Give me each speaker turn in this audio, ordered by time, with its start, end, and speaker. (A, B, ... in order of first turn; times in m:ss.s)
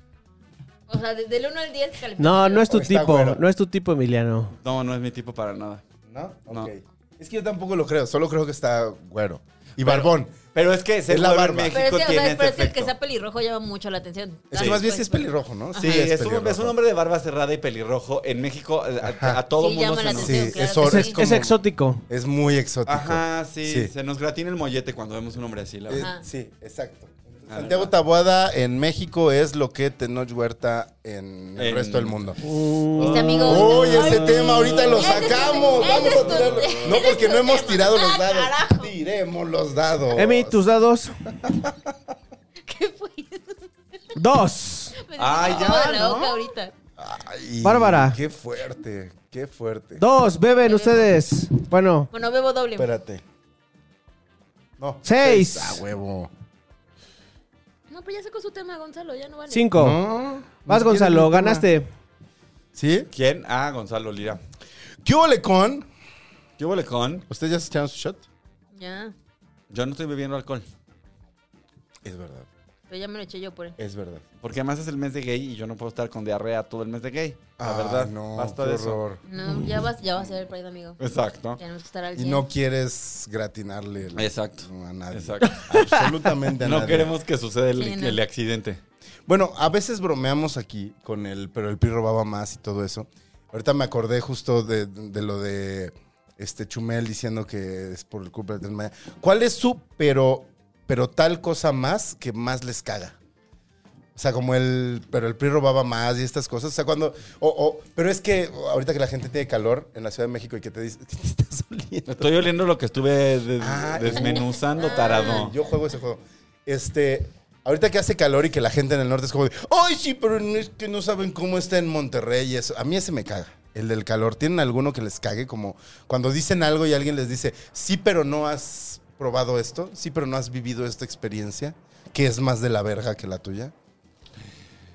0:00.9-0:02.7 A
0:02.2-0:04.5 B
0:02.7-0:03.4 C
0:04.6-0:05.8 D
0:06.1-0:10.3 C
0:09.8-0:12.9 D
0:11.1-0:11.8 C
0:11.7-0:16.0 A
0:14.5-0:16.8 C
0:14.5-0:14.8 D
0:15.8-0:20.7 D
0:19.0-0:19.4 C
0:19.6-0:21.2 A
0:20.1-0:23.9 C
0:20.8-0:22.0 B
0:22.9-0:26.1 D
0:25.9-0:32.4 C
0:26.0-0:26.2 A
0:27.5-0:27.9 D
0:31.6-0:32.2 D
0:32.4-0:33.5 B
0:33.0-0:37.8 D
0:33.0-0:38.9 A
0:33.4-0:40.6 C
0:40.1-0:41.2 B
0:41.4-0:41.8 C
0:42.6-0:44.1 A
0:44.1-0:45.0 B
0:45.0-0:46.7 A
0:45.2-0:46.5 D
0:47.0-0:50.0 C
0:47.6-0:48.2 B
0:50.0-0:52.1 B
0:50.6-0:51.1 A
0:52.1-0:52.9 A
0:52.8-0:53.2 C
0:54.8-0:56.3 C
0:55.0-0:55.8 B
0:57.9-0:59.7 A
0:59.5-1:00.0 B
0:59.8-1:01.6 C
1:00.7-1:01.9 B
1:02.7-1:03.1 C
1:03.1-1:04.4 D
1:05.0-1:05.9 C
1:06.6-1:07.2 D
1:07.3-1:08.2 C
1:08.7-1:09.1 A
1:09.7-1:10.6 D
1:12.0-1:12.5 C
1:12.9-1:13.8 A
1:13.8-1:14.2 C
1:14.4-1:19.0 D
1:17.6-1:19.2 C
1:19.3-1:21.0 A
1:21.0-1:21.6 D
1:21.6-1:22.4 A
1:22.2-1:27.1 C
1:24.2-1:25.6 D
1:25.5-1:26.0 B
1:26.6-1:28.8 D
1:27.7-1:28.2 A
1:29.3-1:43.2 C
1:44.1-1:52.5 C
1:52.2-1:55.5 D
1:53.6-2:13.7 C
1:54.2-1:55.5 A